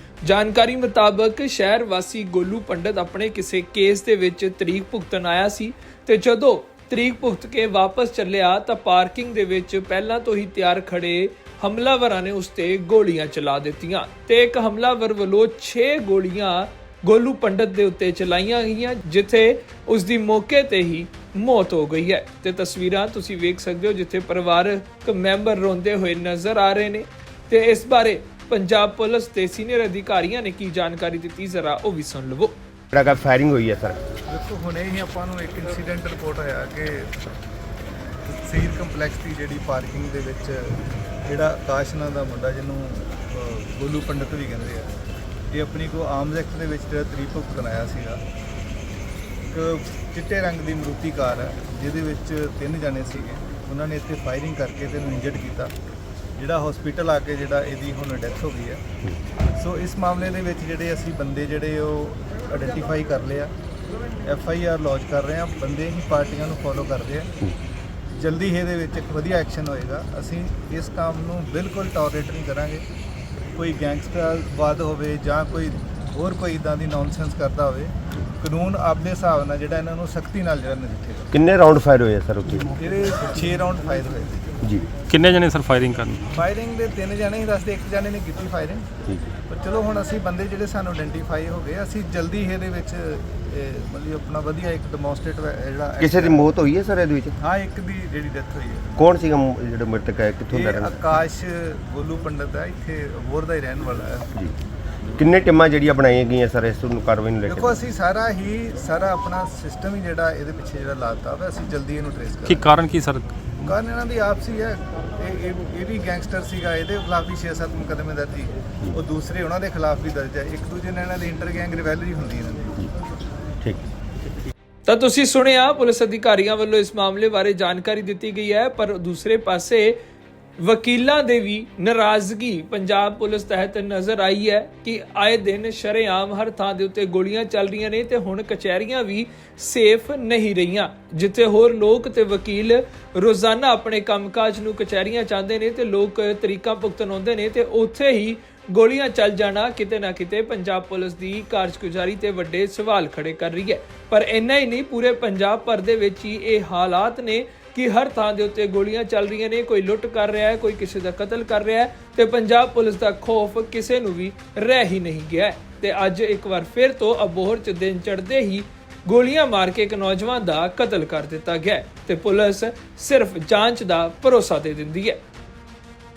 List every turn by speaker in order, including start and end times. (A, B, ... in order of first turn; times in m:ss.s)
0:00.2-0:32.6 A
0:32.9-0:34.0 B
0:34.3-0:37.2 C
0:38.3-0:44.9 C
0:45.5-0:48.2 C
0:49.5-0:55.7 C
0:56.4-0:58.8 C
0:59.6-1:03.5 C
1:04.2-1:07.3 C
1:08.1-1:12.8 C
1:13.6-1:21.3 C
1:21.3-1:22.7 B
1:22.8-1:24.4 C
1:24.6-1:24.9 B
1:25.1-1:26.3 D
1:26.3-1:28.9 C
1:29.5-1:36.5 C
1:36.0-1:37.4 B
1:37.4-1:39.0 C
1:39.0-1:41.0 B
1:40.5-1:44.3 C
1:45.2-1:47.8 B
1:47.5-1:52.7 C
1:52.5-1:53.7 D
1:53.7-2:02.8 C
2:04.9-2:10.0 A
2:10.6-2:55.2 A